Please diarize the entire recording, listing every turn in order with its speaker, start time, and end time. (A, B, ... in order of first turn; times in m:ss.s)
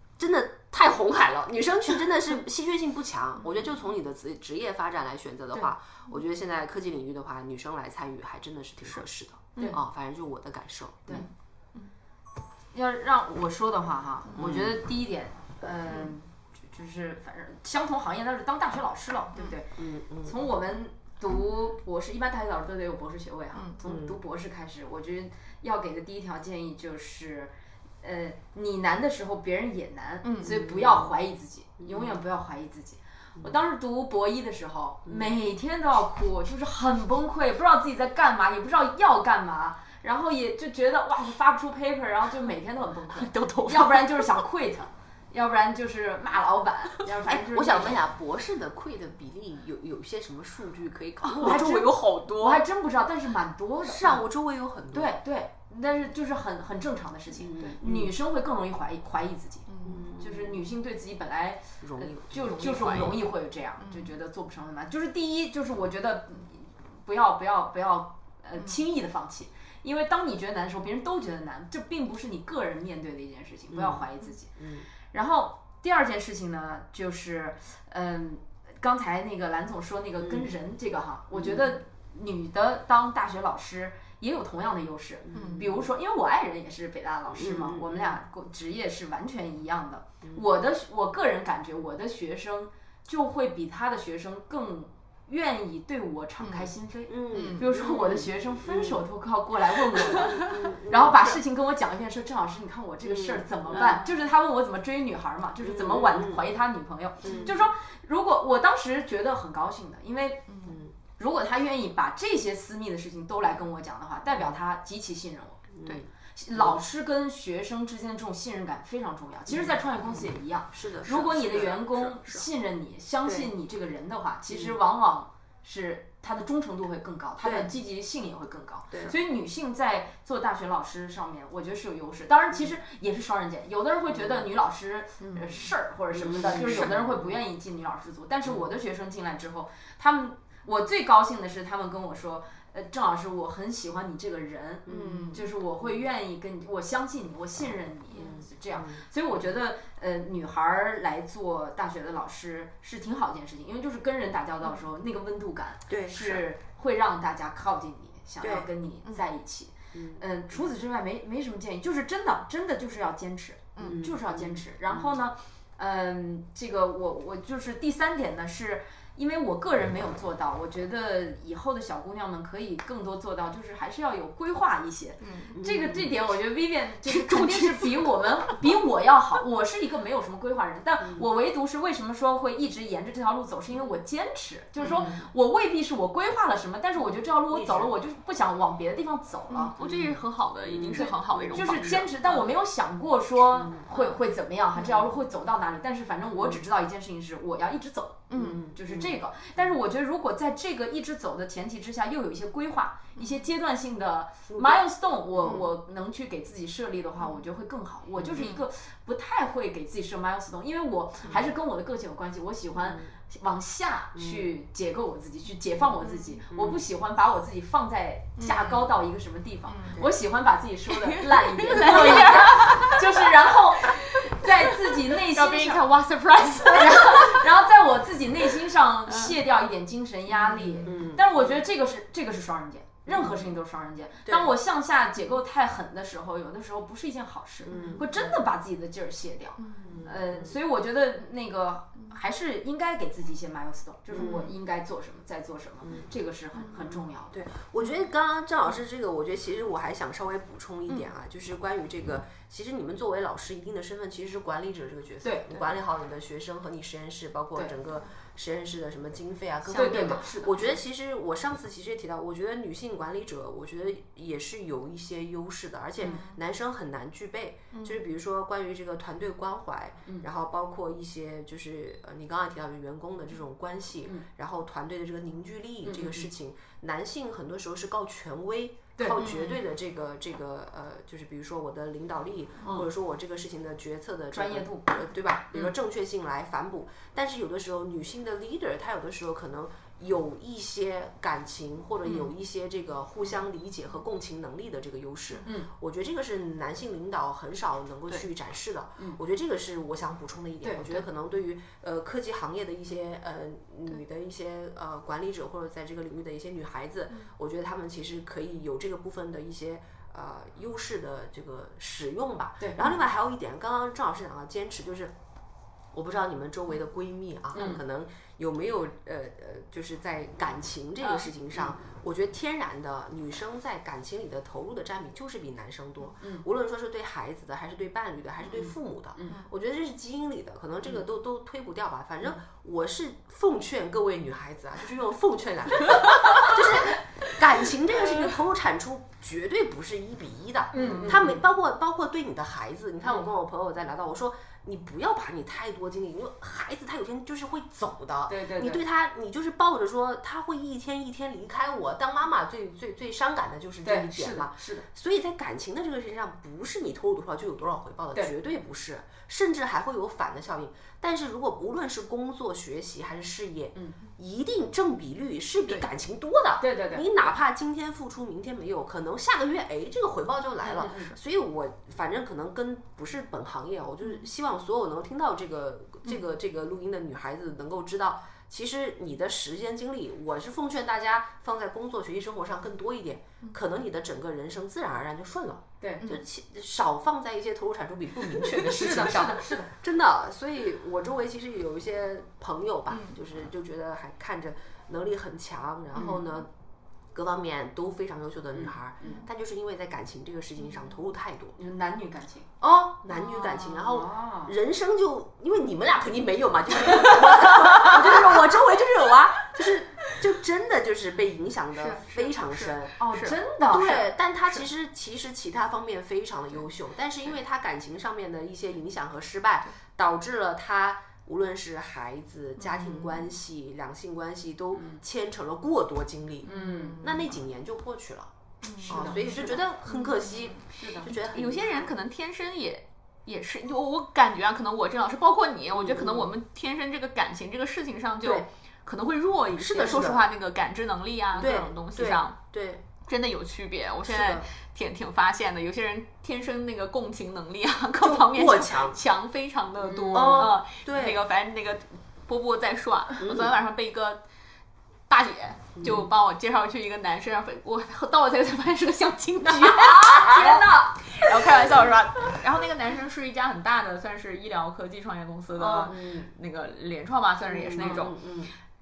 0:00.2-0:11.3 A
0:11.1-0:11.9 B
0:12.7-0:48.0 C
0:14.4-0:14.8 A
0:19.8-0:20.5 A
0:23.8-0:24.2 A
0:30.2-0:30.6 B
0:30.4-0:31.1 A
0:31.8-0:32.2 A
0:35.1-0:35.4 A
0:43.1-0:44.4 B
0:47.2-0:51.9 A
0:51.2-0:52.6 B
0:51.4-0:54.2 C
0:53.8-0:55.2 A
0:54.9-0:59.7 C
0:57.4-0:58.1 A
0:59.7-1:00.0 B
0:59.8-1:00.6 A
1:00.2-1:14.5 C
1:01.8-1:03.2 A
1:02.8-1:03.1 B
1:03.8-1:04.2 B
1:13.7-1:14.0 A
1:14.6-1:14.9 A
1:15.1-1:50.5 C
1:20.2-1:20.5 A
1:21.3-1:21.8 A
1:25.3-1:25.9 A
1:25.3-1:25.7 B
1:27.3-1:28.2 A
1:37.1-1:39.0 A
1:37.3-1:37.6 B
1:40.0-1:41.2 A
1:43.0-1:44.0 A
1:43.7-1:44.2 B
1:45.6-1:46.4 A
1:47.2-1:47.6 A
1:47.2-1:47.6 B
1:50.5-1:50.7 B
1:50.7-1:50.9 A
1:51.2-1:55.6 C
1:54.3-1:54.6 A
1:55.7-1:56.8 A
1:56.4-3:09.8 C
1:59.5-2:02.3 A
2:03.2-2:03.5 A
2:04.5-2:04.8 A
2:07.4-2:07.7 A
2:08.9-2:09.2 A
2:14.1-2:14.4 A
2:15.2-2:15.6 B
2:16.1-2:17.4 A
2:24.9-2:25.4 A
2:24.9-2:25.4 B
2:28.2-2:29.0 A
2:35.9-2:36.4 A
2:38.4-2:38.7 A
2:39.9-2:40.2 A
2:43.8-2:45.2 A
2:55.2-2:55.6 B
2:55.5-2:56.1 A
2:57.1-2:58.1 B
3:04.8-3:05.2 B
3:07.5-3:07.9 A
3:09.5-3:12.5 B
3:09.8-3:12.1 A
3:11.0-3:45.8 C
3:13.6-3:13.8 A
3:13.9-3:14.2 B
3:14.8-3:15.0 B
3:18.3-3:18.6 B
3:18.4-3:19.7 A
3:23.2-3:23.4 B
3:24.5-3:24.8 A
3:28.2-3:28.4 A
3:32.8-3:33.1 A
3:34.2-3:34.5 A
3:36.0-3:36.4 B
3:36.5-3:36.8 A
3:38.4-3:38.9 B
3:39.7-3:40.0 B
3:41.1-3:43.2 B
3:43.8-3:47.5 B
3:46.7-4:07.4 C
3:49.1-3:49.4 B
3:50.4-3:50.9 B
3:50.8-3:51.5 A
3:53.1-3:53.5 A
3:54.3-3:54.5 A
3:57.7-3:58.4 A
3:57.7-3:58.0 B
3:59.6-4:00.0 B
3:59.8-4:00.5 A
4:04.1-4:04.4 A
4:04.2-4:04.5 B
4:07.3-5:15.2 A
4:15.2-4:15.7 C
4:19.7-4:20.8 C
4:19.7-4:20.2 B
4:26.1-4:26.3 B
4:27.7-4:28.0 B
4:35.8-4:36.3 C
4:39.0-4:39.3 C
4:39.2-4:39.6 B
4:42.6-4:42.9 C
4:44.3-4:45.0 C
5:00.6-5:01.0 C
5:15.9-6:36.5 A
5:17.5-5:17.8 C
5:21.0-5:21.3 B
5:26.2-5:26.4 C
5:29.2-5:29.4 C
5:40.7-5:41.4 C
5:40.8-5:41.2 B
5:48.3-5:48.8 C
5:53.8-5:54.9 C
6:06.6-6:07.1 C
6:10.6-6:11.1 C
6:28.4-6:29.7 C
6:36.0-6:36.2 C
6:37.1-6:41.6 A
6:38.6-6:39.2 C
6:41.6-6:42.5 C
6:42.6-6:53.0 A
6:43.2-6:43.7 B
6:43.7-6:44.6 C
6:47.8-6:48.3 C
6:51.8-6:53.4 B
6:53.0-6:54.1 C
6:53.7-7:08.3 A
7:02.6-7:03.3 B
7:06.4-7:07.0 C
7:06.4-7:07.3 B
7:08.6-7:22.4 B
7:08.8-7:11.9 A
7:08.9-7:09.6 C
7:10.8-7:11.1 C
7:15.7-7:16.3 A
7:19.6-7:20.3 A
7:21.4-7:22.9 A
7:23.0-7:34.2 B
7:24.0-7:24.5 A
7:28.0-7:29.0 A
7:29.8-7:30.6 C
7:30.1-7:31.2 A
7:33.2-7:33.5 A
7:35.1-7:48.2 B
7:35.8-7:36.1 A
7:39.5-7:41.1 C
7:40.1-7:40.6 A
7:45.6-7:45.9 C
7:45.8-7:46.3 A
7:47.5-7:48.5 A
7:47.8-7:48.1 C